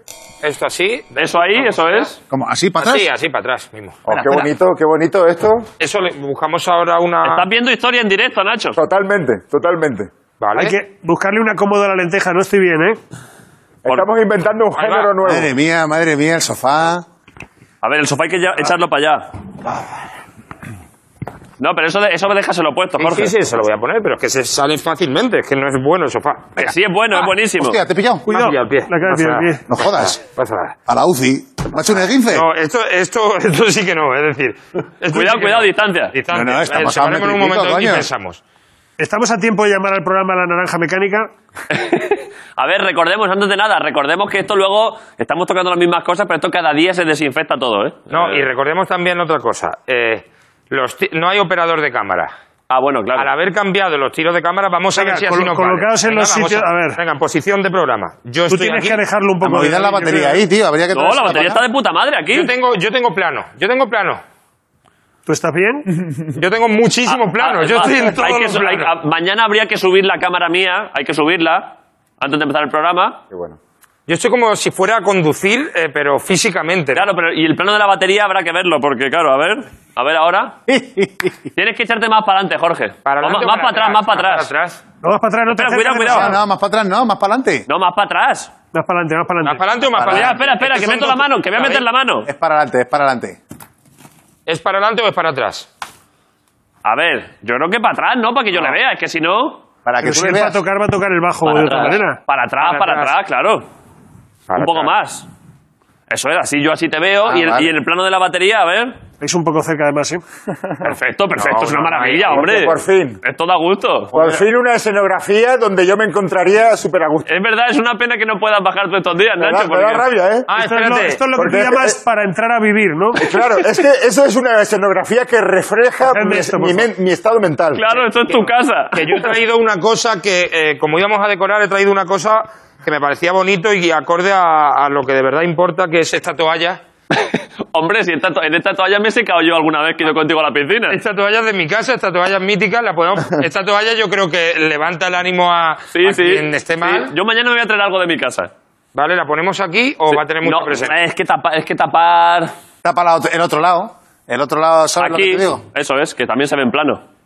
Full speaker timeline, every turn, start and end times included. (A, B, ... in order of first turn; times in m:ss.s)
0:00.4-0:02.1 A
0:01.2-0:02.2 B
0:02.3-0:03.1 C
0:02.8-0:04.0 A
0:04.1-0:05.7 D
0:04.1-0:04.4 B
0:05.8-0:07.5 A
0:07.2-0:08.8 B
0:08.8-0:10.1 D
0:10.4-0:10.8 A
0:10.6-0:13.0 E
0:13.8-0:15.5 D
0:14.8-0:15.1 A
0:15.2-0:17.0 C
0:17.8-0:19.3 B
0:21.6-0:23.3 B
0:23.0-0:26.7 A
0:26.6-0:27.8 B
0:27.6-0:28.3 C
0:28.3-0:30.8 A
0:28.3-0:29.6 E
0:29.7-0:30.2 C
0:30.9-0:32.5 C
0:32.3-0:38.4 A
0:35.1-0:36.1 B
0:36.3-0:38.1 C
0:39.0-0:41.3 E
0:41.7-0:48.5 B
0:48.1-0:52.3 A
0:52.7-0:53.3 B
0:53.1-0:59.0 A
0:55.0-0:57.0 E
0:58.4-1:00.4 E
0:59.4-1:01.6 C
1:00.9-1:02.5 B
1:02.3-1:04.2 A
1:05.3-1:05.9 E
1:06.3-1:08.9 A
1:07.1-1:13.2 B
1:13.3-1:13.6 D
1:14.1-1:17.1 A
1:17.0-1:20.6 B
1:20.7-1:21.4 C
1:21.6-1:24.5 B
1:23.1-1:24.8 A
1:25.0-1:26.4 E
1:25.5-1:26.4 B
1:26.0-1:27.6 C
1:27.7-1:28.5 B
1:28.7-1:29.6 E
1:29.4-1:31.8 A
1:30.0-1:30.4 C
1:30.1-1:32.3 B
1:32.3-1:33.4 C
1:34.5-1:35.7 A
1:36.8-1:39.6 B
1:39.8-1:40.6 C
1:40.0-1:42.2 E
1:41.4-1:43.7 B
1:42.6-1:43.1 A
1:44.5-1:44.9 A
1:44.6-1:45.3 B
1:46.1-1:49.0 B
1:47.3-1:47.7 D
1:49.2-1:50.2 E
1:50.8-1:54.4 B
1:51.4-1:52.4 A
1:52.3-1:53.2 D
1:54.1-1:57.3 D
1:57.3-2:00.1 B
1:59.4-2:00.5 D
2:00.5-2:01.2 A
2:00.6-2:03.2 E
2:01.4-2:02.0 D
2:03.2-2:07.8 D
2:06.1-2:06.9 E
2:07.7-2:09.3 B
2:08.9-2:16.8 A
2:17.1-2:21.0 B
2:20.9-2:27.1 A
2:25.9-2:28.5 B
2:29.0-2:31.0 A
2:30.1-2:32.5 B
2:32.8-2:35.6 C
2:35.0-2:37.0 B